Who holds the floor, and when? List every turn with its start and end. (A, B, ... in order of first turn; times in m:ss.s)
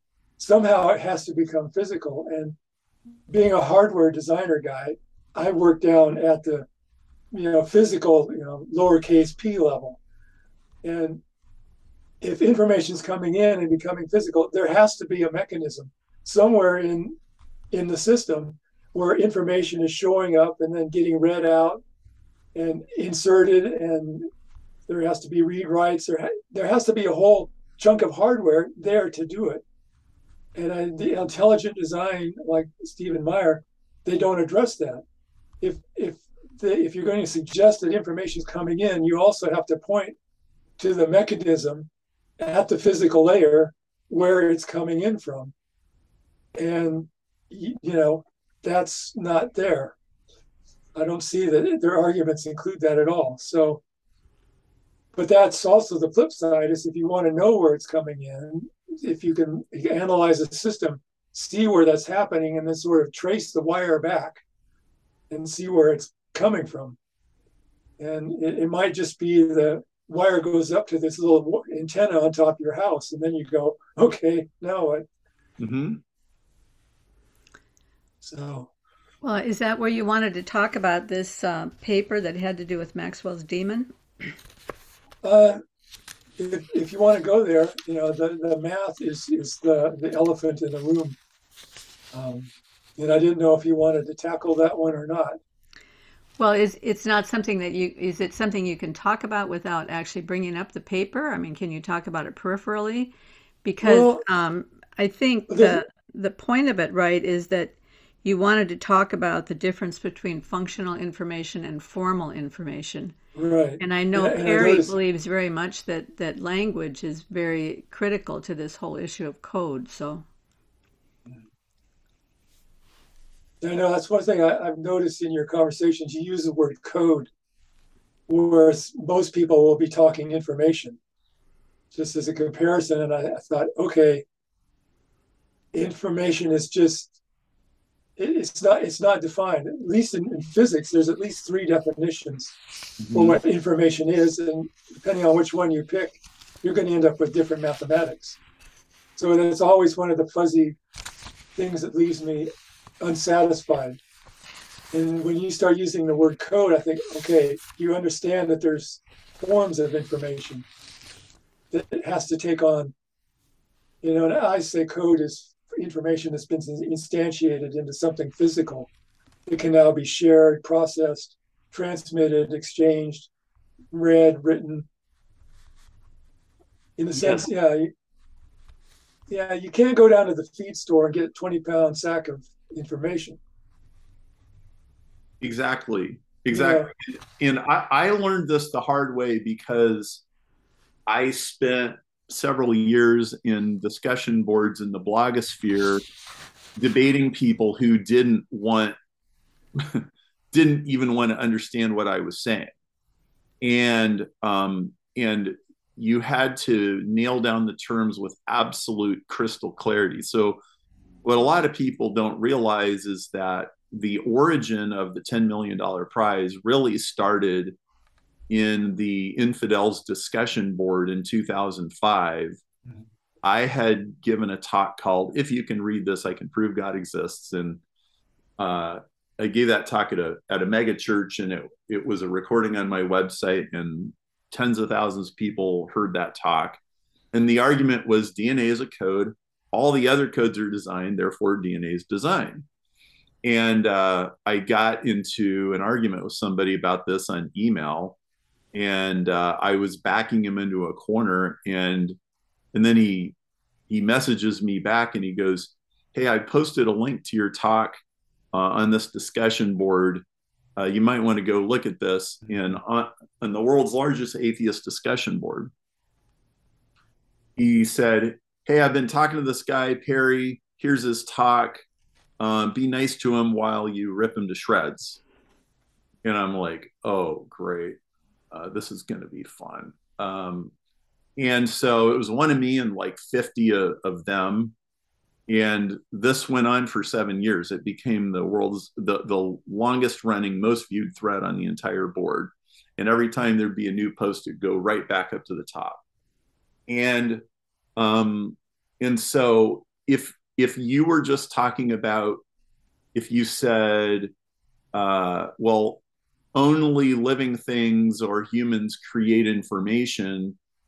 0:00.4-0:02.6 A
0:03.3-0:06.7 A
0:07.3-0:10.0 A
0:10.8-0:11.2 A
0:12.2-0:17.1 A
0:17.7-0:21.8 A
0:22.5-0:24.3 A
0:24.9-0:29.6 A
0:30.5-0:35.0 A
0:35.6-0:40.2 A
0:40.8-0:45.5 A
0:46.6-0:50.0 A
0:50.9-0:53.8 A
0:55.1-1:04.4 A
1:05.3-1:07.0 A
1:08.0-1:15.0 A
1:15.6-1:16.0 B
1:18.2-1:18.7 A
1:19.2-1:23.9 C
1:25.2-1:25.6 A
1:26.4-1:31.2 A
1:32.1-1:35.4 A
1:36.4-1:43.1 C
1:43.6-1:53.2 C
1:43.8-1:44.2 A
1:45.5-1:45.8 A
1:53.3-1:54.9 A
1:53.8-2:00.2 C
2:03.6-2:07.3 A
2:08.3-2:11.0 A
2:11.9-2:14.2 A
2:15.7-2:17.1 A
2:18.2-2:22.6 A
2:23.0-2:23.4 B
2:23.1-2:28.4 A
2:29.2-2:30.8 A
2:31.6-2:34.0 A
2:34.9-2:40.6 A
2:41.7-2:42.9 A
2:44.0-2:48.9 A
2:49.4-2:53.3 A
2:53.9-2:54.8 A
2:57.0-2:57.9 A
2:57.2-2:57.4 B
2:59.3-3:03.4 A
3:05.4-3:10.2 B
3:06.5-3:06.9 A
3:11.1-3:16.0 B
3:16.8-3:19.0 B
3:19.8-3:22.7 B
3:23.6-3:30.6 B
3:31.2-3:37.8 B
3:38.5-3:42.6 B
3:43.4-3:47.8 B
3:48.6-3:56.8 B
3:57.3-4:02.6 B
4:03.4-4:08.2 B
4:08.7-4:12.2 B
4:12.7-4:13.4 B
4:13.9-4:18.0 B
4:18.5-4:20.2 B
4:20.8-4:25.7 B
4:27.6-4:31.8 B
4:32.4-4:35.2 B
4:36.2-4:38.0 B
4:38.5-4:40.7 B
4:41.4-4:44.8 B
4:45.5-4:56.0 B
4:56.9-4:57.4 B
4:58.0-5:02.4 B
5:03.1-5:04.3 B
5:04.9-5:06.0 B
5:06.6-5:10.6 B